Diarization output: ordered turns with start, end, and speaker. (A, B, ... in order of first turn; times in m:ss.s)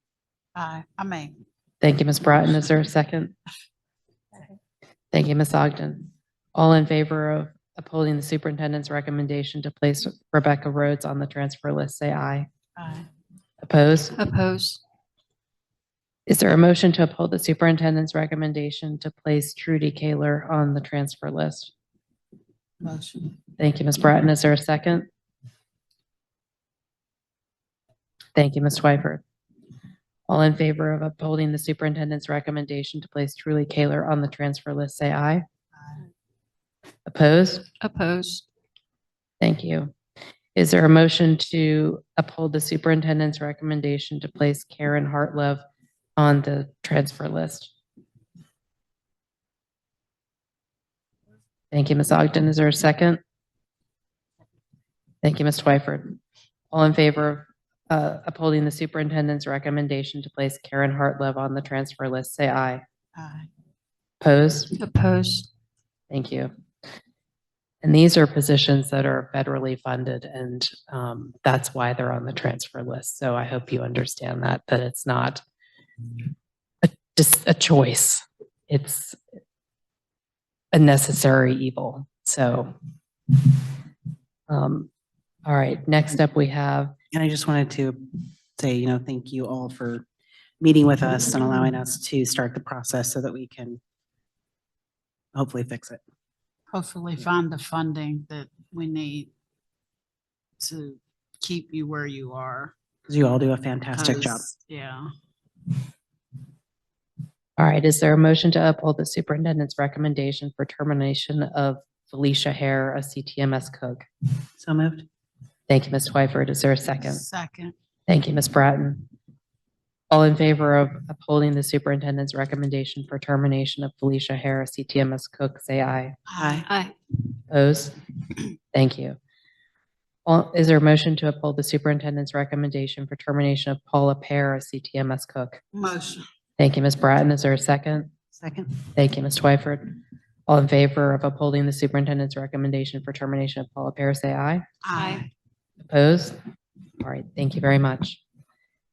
0:00.6-0:01.4 A
0:01.8-0:03.3 B
0:05.1-0:12.5 B
0:12.8-0:13.1 A
0:13.6-0:14.2 B
0:14.2-0:14.8 C
0:16.3-0:21.7 B
0:22.8-0:23.3 A
0:23.6-0:25.1 B
0:28.4-0:29.2 B
0:30.3-0:35.4 B
0:37.0-0:37.7 B
0:37.8-0:38.4 C
0:39.4-0:39.9 B
0:40.5-0:45.6 B
0:46.2-0:47.7 B
0:51.7-0:53.2 B
0:55.2-0:56.2 B
0:56.7-1:02.8 B
1:03.2-1:03.5 A
1:04.2-1:04.8 B
1:04.7-1:05.5 C
1:06.1-1:06.5 B
1:07.8-1:15.4 B
1:16.8-1:19.2 B
1:20.7-1:22.7 B
1:24.5-1:24.9 B
1:25.4-1:26.9 B
1:27.1-1:30.0 D
1:30.6-1:33.8 D
1:35.3-1:36.0 D
1:36.7-1:39.3 A
1:40.6-1:42.7 A
1:43.1-1:44.5 D
1:44.0-1:45.1 A
1:47.6-1:54.0 B
1:54.6-1:55.0 D
1:55.7-1:57.2 B
1:57.0-1:57.7 A
1:58.1-1:59.1 B
2:00.1-2:06.2 B
2:06.3-2:06.7 A
2:06.4-2:06.6 D
2:06.7-2:06.9 C
2:07.5-2:08.0 B
2:08.7-2:09.2 B
2:10.2-2:15.6 B
2:15.7-2:16.2 A
2:16.6-2:18.1 B
2:18.4-2:18.7 D
2:18.9-2:24.6 B
2:24.8-2:25.3 A
2:25.0-2:25.2 C
2:25.8-2:26.4 B
2:27.0-2:28.2 B